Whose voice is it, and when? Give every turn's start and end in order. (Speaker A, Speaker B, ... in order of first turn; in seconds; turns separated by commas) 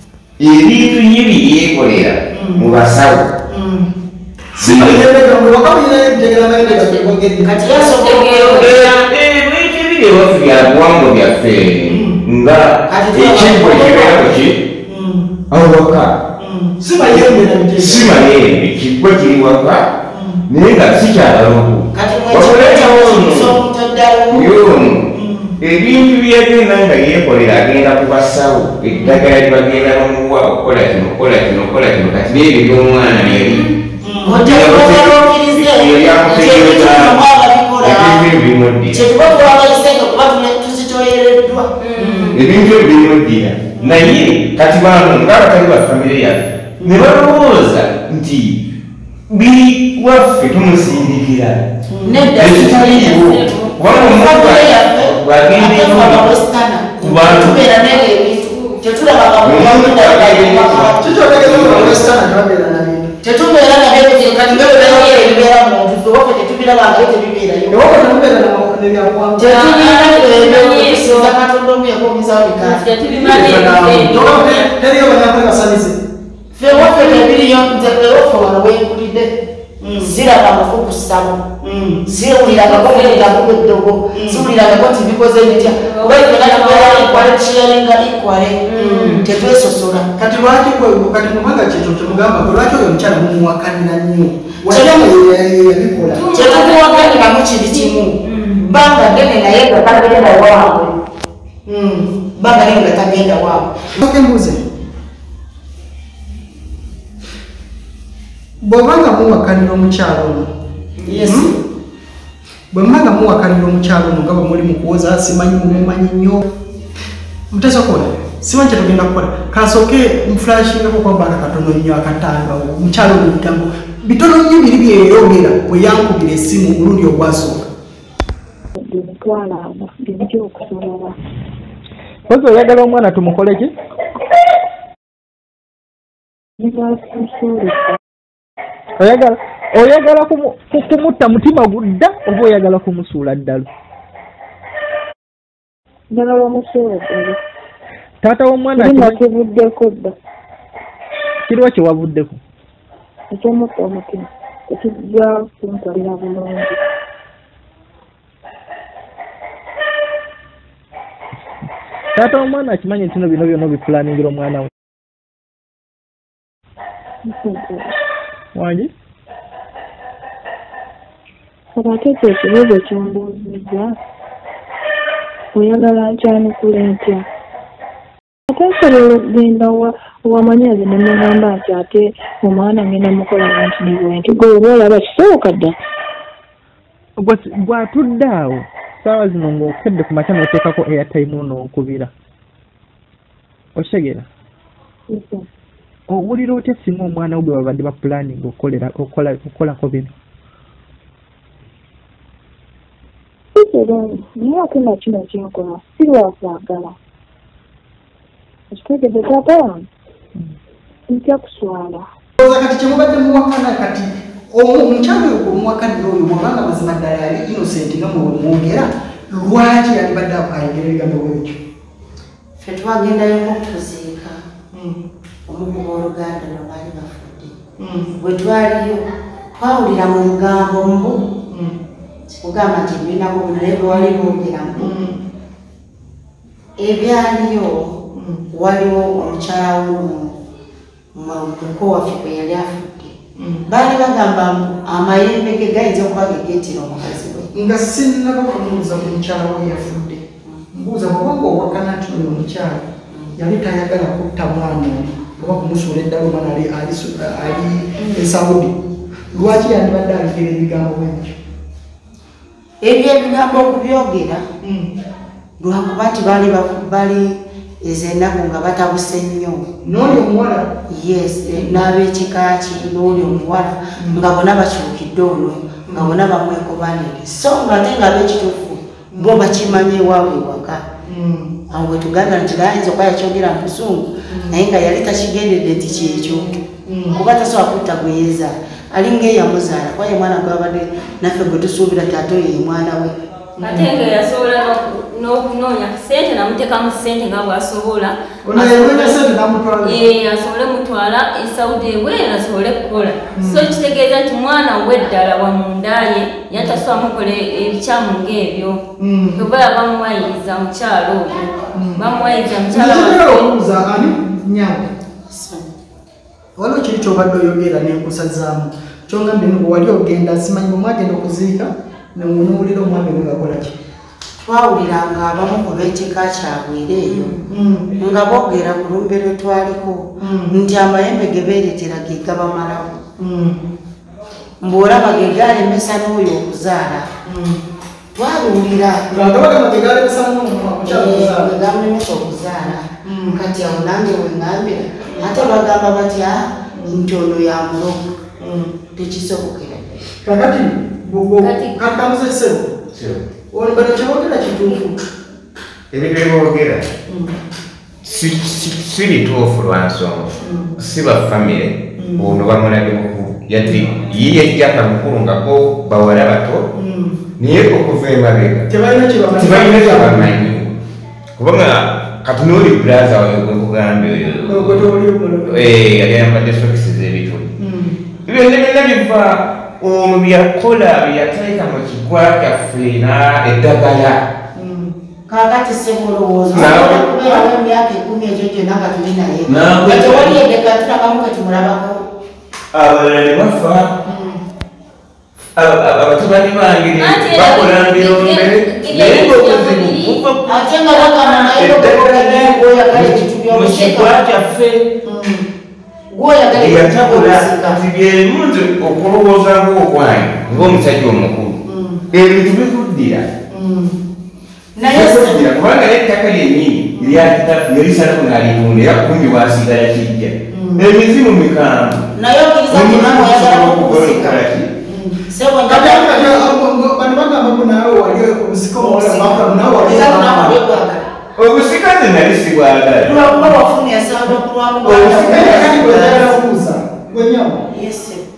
Speaker A: 0.4-3.3, Speaker B: 2.3-2.6, Speaker B: 3.5-3.9, Speaker B: 4.5-8.0, Speaker A: 4.6-5.0, Speaker C: 6.6-9.0, Speaker D: 8.0-8.9, Speaker A: 8.4-14.6, Speaker B: 11.8-12.2, Speaker C: 12.9-14.4, Speaker B: 14.8-15.3, Speaker A: 15.5-16.1, Speaker B: 16.4-18.2, Speaker A: 17.0-19.9, Speaker B: 20.1-20.4, Speaker A: 20.5-23.6, Speaker C: 21.9-24.9, Speaker A: 24.3-25.1, Speaker B: 25.1-25.6, Speaker A: 25.6-33.7, Speaker B: 28.9-29.3, Speaker D: 33.3-33.7, Speaker B: 34.0-34.4, Speaker C: 34.2-38.2, Speaker A: 34.3-37.2, Speaker A: 37.8-39.3, Speaker C: 38.9-41.7, Speaker D: 41.8-42.4, Speaker B: 42.0-42.3, Speaker A: 42.3-48.6, Speaker D: 43.8-44.1, Speaker A: 49.3-51.6, Speaker B: 51.9-52.2, Speaker C: 52.0-61.1, Speaker A: 52.4-56.3, Speaker D: 52.8-53.7, Speaker A: 57.0-57.6, Speaker D: 57.4-59.0, Speaker A: 59.4-62.1, Speaker B: 61.0-63.1, Speaker C: 63.2-68.1, Speaker D: 63.9-65.4, Speaker B: 67.7-69.7, Speaker C: 69.4-72.8, Speaker D: 69.4-71.3, Speaker D: 72.6-74.7, Speaker B: 73.0-76.0, Speaker C: 76.5-79.3, Speaker D: 76.7-77.3, Speaker B: 79.8-80.2, Speaker C: 80.0-81.4, Speaker B: 81.6-82.0, Speaker C: 82.0-90.1, Speaker D: 82.5-83.4, Speaker B: 84.1-84.5, Speaker D: 85.5-87.3, Speaker D: 88.7-89.3, Speaker B: 88.7-89.2, Speaker B: 90.2-96.2, Speaker C: 94.7-95.1, Speaker D: 96.1-98.7, Speaker C: 96.3-98.1, Speaker C: 98.7-100.9, Speaker D: 99.7-100.8, Speaker B: 101.7-102.1, Speaker C: 102.4-103.7, Speaker B: 103.9-104.6, Speaker B: 108.6-110.5, Speaker C: 111.0-111.6, Speaker B: 111.2-111.5, Speaker B: 112.7-116.4, Speaker B: 117.5-127.7, Speaker E: 128.8-131.1, Speaker F: 132.3-133.7, Speaker B: 132.4-133.6, Speaker E: 136.6-137.9, Speaker F: 139.0-143.7, Speaker E: 146.1-147.4, Speaker F: 148.2-149.2, Speaker E: 148.8-150.1, Speaker F: 151.5-152.4, Speaker E: 153.3-156.8, Speaker F: 162.1-164.7, Speaker E: 167.2-168.0, Speaker F: 168.5-168.9, Speaker E: 171.7-173.9, Speaker E: 175.5-177.2, Speaker E: 178.5-185.8, Speaker F: 187.2-192.1, Speaker F: 193.7-194.3, Speaker E: 195.1-195.4, Speaker F: 196.1-200.1, Speaker E: 203.5-206.9, Speaker E: 208.7-209.9, Speaker E: 211.1-212.0, Speaker B: 212.4-221.6, Speaker C: 222.6-224.4, Speaker C: 225.5-227.5, Speaker B: 227.8-228.1, Speaker C: 228.2-231.2, Speaker B: 231.4-231.7, Speaker C: 232.4-234.9, Speaker B: 233.9-235.1, Speaker C: 236.8-238.0, Speaker C: 238.5-240.3, Speaker C: 241.1-243.1, Speaker C: 243.7-247.5, Speaker B: 247.5-252.8, Speaker B: 253.3-258.7, Speaker B: 259.3-261.4, Speaker C: 262.8-264.4, Speaker B: 264.6-264.9, Speaker C: 265.6-269.6, Speaker B: 269.8-270.7, Speaker C: 270.9-280.8, Speaker B: 271.5-271.9, Speaker B: 274.0-274.2, Speaker B: 275.9-276.2, Speaker B: 279.1-279.5, Speaker B: 281.0-281.5, Speaker C: 281.7-286.5, Speaker B: 284.3-284.6, Speaker B: 285.9-287.2, Speaker C: 287.1-293.1, Speaker B: 293.6-293.9, Speaker D: 293.6-299.2, Speaker B: 298.4-300.0, Speaker D: 299.8-308.8, Speaker B: 303.4-303.7, Speaker B: 306.5-306.8, Speaker B: 309.0-309.4, Speaker D: 309.4-313.5, Speaker B: 311.7-312.0, Speaker B: 312.7-314.9, Speaker C: 315.3-315.6, Speaker B: 316.6-323.7, Speaker C: 324.4-327.4, Speaker B: 327.1-327.9, Speaker C: 328.0-333.0, Speaker B: 330.2-330.6, Speaker B: 333.2-333.6, Speaker C: 334.6-337.1, Speaker B: 337.2-337.6, Speaker C: 338.1-339.1, Speaker B: 339.1-341.5, Speaker C: 340.8-348.1, Speaker B: 343.0-343.4, Speaker B: 345.1-345.4, Speaker B: 346.7-347.0, Speaker B: 348.4-348.7, Speaker C: 348.9-350.0, Speaker B: 350.2-352.7, Speaker D: 351.4-351.8, Speaker A: 352.9-353.2, Speaker B: 353.5-355.0, Speaker A: 355.9-356.9, Speaker B: 357.1-357.3, Speaker A: 358.0-366.6, Speaker B: 360.4-360.8, Speaker B: 362.0-362.4, Speaker B: 363.6-363.9, Speaker B: 366.7-367.2, Speaker A: 367.4-368.7, Speaker B: 368.7-370.4, Speaker A: 369.4-370.7, Speaker A: 371.4-374.9, Speaker B: 374.4-375.7, Speaker A: 375.4-377.5, Speaker B: 377.6-378.0, Speaker A: 378.2-384.2, Speaker B: 384.5-384.9, Speaker C: 385.3-392.0, Speaker A: 386.5-387.4, Speaker A: 389.5-390.4, Speaker A: 392.7-393.9, Speaker B: 394.0-394.4, Speaker A: 395.6-400.5, Speaker D: 397.0-400.2, Speaker C: 400.4-404.1, Speaker A: 401.0-404.9, Speaker B: 401.8-402.3, Speaker B: 405.0-405.4, Speaker C: 406.1-407.8, Speaker A: 406.5-411.6, Speaker B: 411.6-412.0, Speaker A: 412.1-413.3, Speaker B: 413.5-414.0, Speaker C: 414.8-415.5, Speaker A: 414.9-422.0, Speaker B: 416.9-417.3, Speaker B: 420.5-420.9, Speaker C: 422.1-424.4, Speaker A: 422.7-424.7, Speaker B: 424.8-430.6, Speaker C: 425.3-426.5, Speaker C: 428.8-431.0, Speaker A: 431.4-433.2, Speaker C: 433.0-436.4, Speaker B: 434.8-437.6, Speaker A: 434.9-435.5, Speaker C: 437.7-438.2